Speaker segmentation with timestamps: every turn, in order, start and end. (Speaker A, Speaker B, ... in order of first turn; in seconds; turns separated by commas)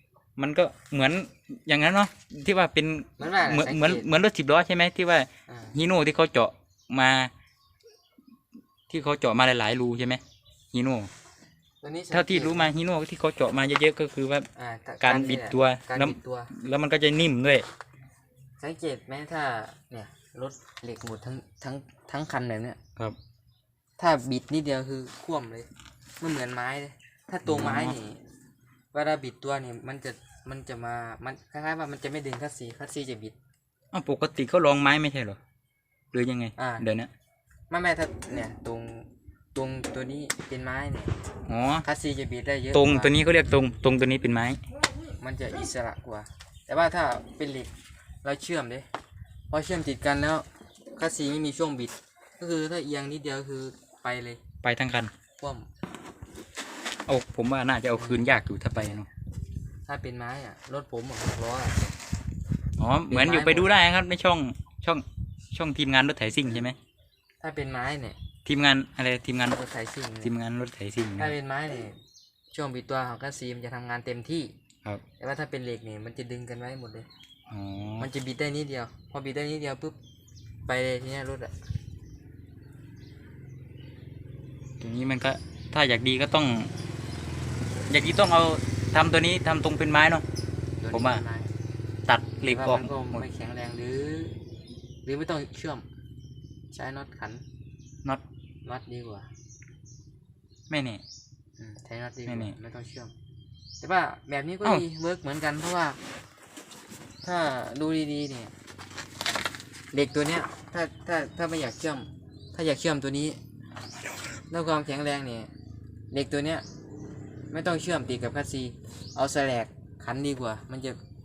Speaker A: 0.4-7.3, Speaker B: 3.2-4.1, Speaker B: 5.5-5.8, Speaker A: 8.9-10.2, Speaker A: 10.7-11.1, Speaker B: 11.8-12.7, Speaker A: 12.1-14.5, Speaker B: 14.6-16.5, Speaker A: 15.0-17.7, Speaker B: 18.6-22.8, Speaker B: 24.0-25.7, Speaker B: 26.2-28.2, Speaker A: 27.4-28.0, Speaker B: 28.9-33.4, Speaker A: 33.9-35.4, Speaker A: 36.1-37.1, Speaker B: 36.6-36.9, Speaker B: 37.7-41.1, Speaker A: 41.5-41.9, Speaker B: 41.8-43.1, Speaker A: 42.7-44.6, Speaker B: 45.0-47.7, Speaker B: 48.2-48.9, Speaker B: 49.5-54.4, Speaker A: 54.6-55.1, Speaker B: 55.4-55.7, Speaker A: 57.1-59.1, Speaker B: 58.0-59.0, Speaker B: 59.9-62.0, Speaker A: 62.8-66.8, Speaker B: 63.1-63.8, Speaker B: 67.4-68.2, Speaker A: 68.5-69.6, Speaker B: 69.5-70.3, Speaker A: 70.2-71.4, Speaker B: 71.2-72.0, Speaker B: 72.5-74.5, Speaker B: 75.2-77.1, Speaker A: 77.5-78.1, Speaker B: 78.0-80.0, Speaker B: 80.7-81.5, Speaker A: 84.8-86.7, Speaker A: 87.9-90.2, Speaker B: 90.8-91.5, Speaker A: 90.9-91.2, Speaker A: 92.1-93.2, Speaker B: 92.5-94.3, Speaker B: 95.0-95.9, Speaker B: 96.7-97.4, Speaker B: 98.6-99.3, Speaker A: 100.7-101.0, Speaker B: 101.6-103.1, Speaker A: 102.3-102.6, Speaker B: 103.8-106.0, Speaker B: 107.2-108.5, Speaker B: 109.9-113.4, Speaker B: 114.5-115.5, Speaker B: 116.1-116.7, Speaker B: 117.5-121.0